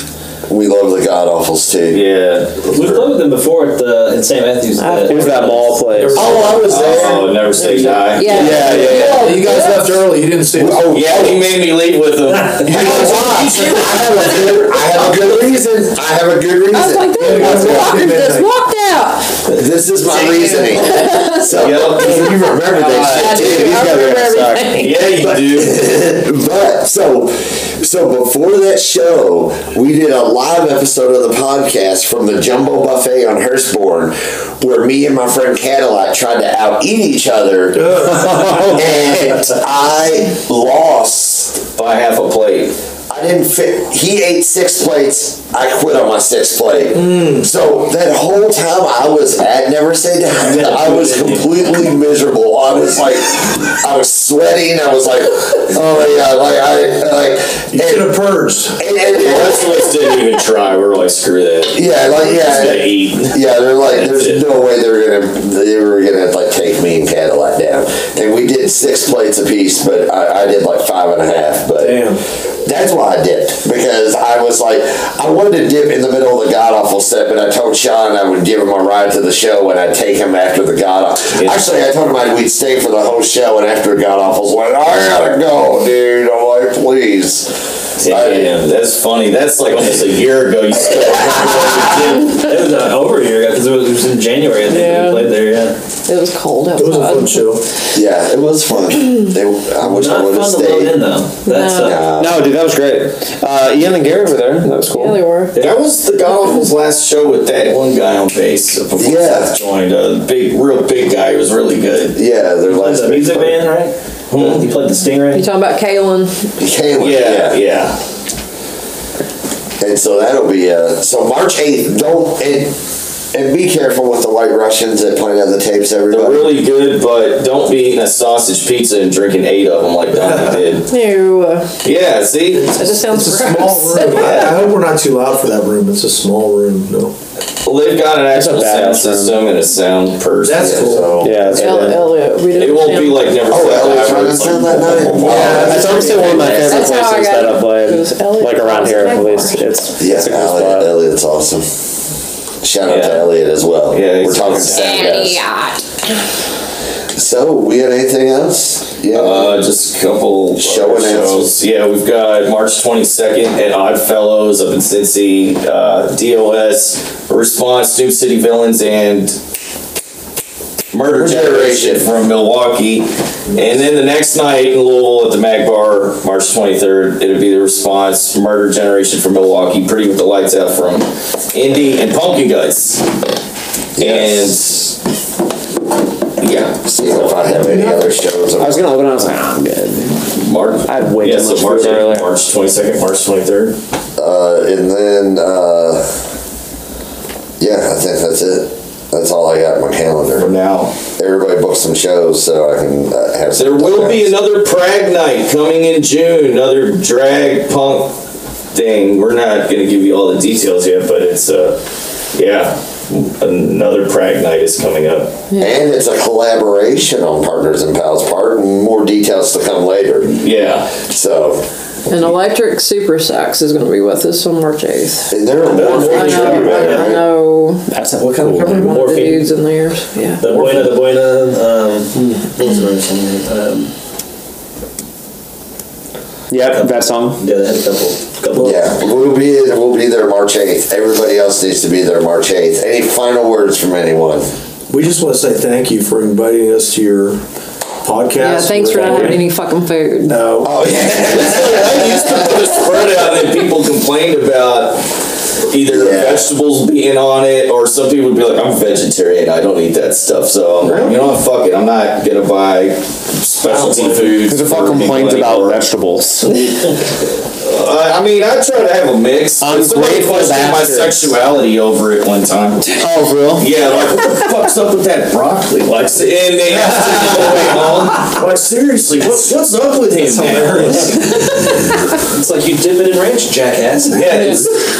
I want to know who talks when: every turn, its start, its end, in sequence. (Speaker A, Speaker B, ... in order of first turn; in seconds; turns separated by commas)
Speaker A: 0.5-2.0, Speaker B: 1.9-3.0, Speaker C: 2.7-6.9, Speaker D: 4.7-5.5, Speaker E: 5.0-6.4, Speaker A: 6.1-7.4, Speaker B: 6.4-8.6, Speaker D: 7.6-9.9, Speaker E: 8.3-9.3, Speaker F: 8.3-10.9, Speaker A: 8.8-9.6, Speaker A: 10.5-11.6, Speaker B: 10.9-14.4, Speaker A: 12.6-17.9, Speaker E: 13.8-14.6, Speaker D: 16.7-19.5, Speaker F: 17.1-18.5, Speaker A: 19.4-24.1, Speaker D: 20.1-25.1, Speaker B: 21.5-22.5, Speaker E: 22.7-24.8, Speaker B: 24.7-26.0, Speaker A: 25.2-41.6, Speaker F: 37.7-38.8, Speaker E: 38.3-38.8, Speaker B: 41.7-42.8, Speaker A: 43.1-58.2, Speaker F: 46.9-47.5, Speaker C: 50.4-51.7, Speaker F: 57.7-58.8, Speaker A: 58.8-59.8, Speaker B: 59.1-64.4, Speaker A: 61.7-88.6, Speaker F: 71.8-72.2, Speaker B: 88.0-92.5, Speaker C: 92.3-95.8, Speaker D: 94.6-95.4, Speaker D: 96.1-97.5, Speaker F: 96.8-97.7, Speaker A: 97.9-101.0, Speaker C: 99.8-102.0, Speaker D: 101.4-102.1, Speaker A: 101.8-102.4, Speaker E: 102.2-105.2, Speaker D: 104.9-105.6, Speaker C: 105.5-105.8, Speaker B: 105.6-112.2, Speaker A: 109.0-109.5, Speaker A: 112.1-113.6, Speaker C: 112.7-115.4, Speaker B: 114.3-114.6, Speaker D: 115.3-116.5, Speaker A: 116.6-117.6, Speaker B: 117.0-118.0, Speaker A: 119.8-122.8, Speaker A: 123.3-126.5, Speaker B: 126.1-130.9, Speaker F: 130.2-130.6, Speaker D: 130.9-131.8, Speaker B: 131.8-132.7, Speaker F: 132.5-137.1, Speaker D: 132.7-134.6, Speaker B: 134.1-134.6, Speaker B: 137.6-141.6, Speaker E: 138.3-139.4, Speaker F: 140.4-141.9, Speaker A: 140.6-141.4, Speaker E: 141.2-142.1, Speaker D: 141.6-143.4, Speaker B: 142.5-146.7, Speaker A: 143.4-146.5, Speaker F: 145.1-146.5, Speaker E: 145.2-150.9, Speaker D: 146.4-149.7, Speaker A: 150.0-151.7, Speaker A: 152.6-155.4, Speaker B: 152.8-153.3, Speaker B: 153.9-155.1, Speaker D: 154.8-156.0, Speaker A: 157.1-159.6, Speaker B: 159.1-169.4, Speaker A: 160.6-161.5, Speaker B: 170.9-183.1, Speaker A: 171.1-172.1, Speaker A: 184.0-184.5, Speaker B: 184.0-185.0, Speaker B: 186.4-187.6, Speaker A: 186.8-188.9, Speaker F: 187.6-188.1, Speaker E: 188.6-190.2, Speaker B: 190.4-193.8, Speaker E: 190.8-192.3, Speaker A: 194.2-196.2, Speaker A: 197.6-200.5, Speaker B: 200.4-200.9, Speaker A: 201.2-204.4, Speaker B: 203.6-208.2, Speaker B: 208.7-211.8, Speaker B: 212.3-215.4, Speaker D: 215.5-215.8, Speaker A: 215.6-221.6, Speaker B: 220.2-220.9, Speaker D: 222.1-227.9, Speaker A: 225.3-227.3, Speaker C: 225.9-226.9, Speaker F: 226.0-226.9, Speaker E: 227.9-228.9, Speaker C: 228.3-229.5, Speaker D: 228.6-230.5, Speaker C: 230.4-233.9, Speaker F: 230.5-230.9, Speaker E: 236.5-237.4, Speaker C: 236.7-238.8, Speaker A: 238.6-244.5, Speaker F: 244.9-247.4, Speaker F: 248.0-249.5, Speaker D: 248.4-250.5, Speaker F: 250.2-250.7, Speaker A: 250.6-253.1, Speaker B: 251.1-255.1, Speaker B: 255.6-265.9, Speaker A: 255.8-256.5, Speaker F: 263.6-264.4, Speaker E: 264.4-266.6, Speaker B: 267.6-273.0, Speaker E: 269.6-271.3, Speaker E: 272.8-273.7, Speaker B: 273.5-281.5, Speaker F: 276.7-278.0, Speaker F: 279.2-279.5, Speaker F: 280.2-281.4, Speaker C: 282.2-284.4, Speaker B: 284.1-284.8, Speaker F: 284.1-284.5